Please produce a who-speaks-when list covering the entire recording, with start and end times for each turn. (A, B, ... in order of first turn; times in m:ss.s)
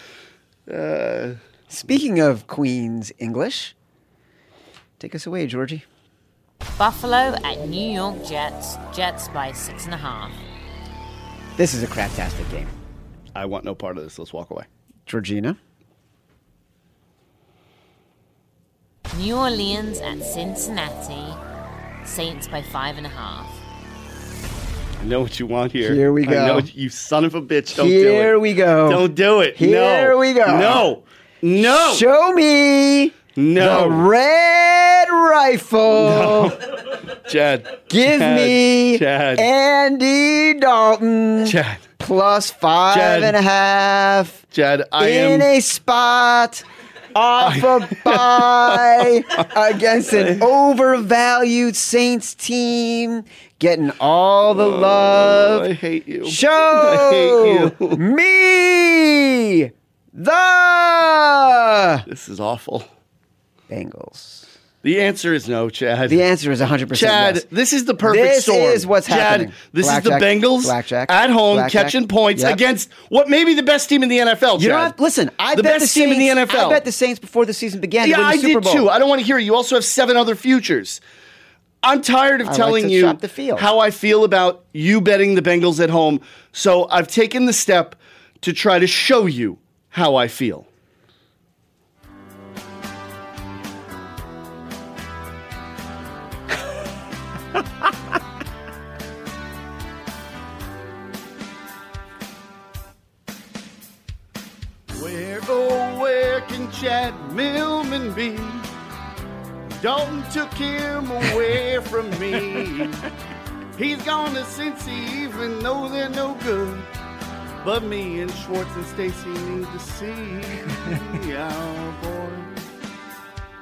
0:00.7-0:01.4 A
0:01.7-0:03.7 B
0:05.0-0:05.8 B
0:06.8-0:10.4 C
0:11.6-0:12.7 B
0:13.3-0:14.7 A
0:15.0-0:15.6 B
0:19.1-0:21.4 C
0:22.0-0:23.6 C
0:25.0-0:32.0 A
0:25.8-0:26.7 B
0:27.7-0:29.0 B
0:29.6-0:30.8 B
0:31.6-0:36.6 B
0:33.4-0:34.0 A
0:35.9-0:39.5 A
0:37.9-0:44.4 B
0:41.4-0:41.8 A
0:42.9-0:43.3 A
0:44.5-0:45.5 A
0:45.0-0:55.7 B
0:47.4-0:49.5 A
0:54.6-0:58.0 A
0:56.2-1:02.0 B
1:02.1-1:02.9 A
1:03.7-1:04.5 B
1:04.8-1:06.2 A
1:06.1-1:07.4 B
1:06.9-1:14.9 A
1:08.0-1:12.6 B
1:14.6-1:18.9 B
1:15.5-1:16.8 A
1:18.0-1:21.0 A
1:21.8-1:30.7 A
1:22.4-1:23.7 B
1:44.9-1:48.7 A
1:49.8-1:53.1 A
1:53.8-1:56.9 A
1:57.6-2:02.5 A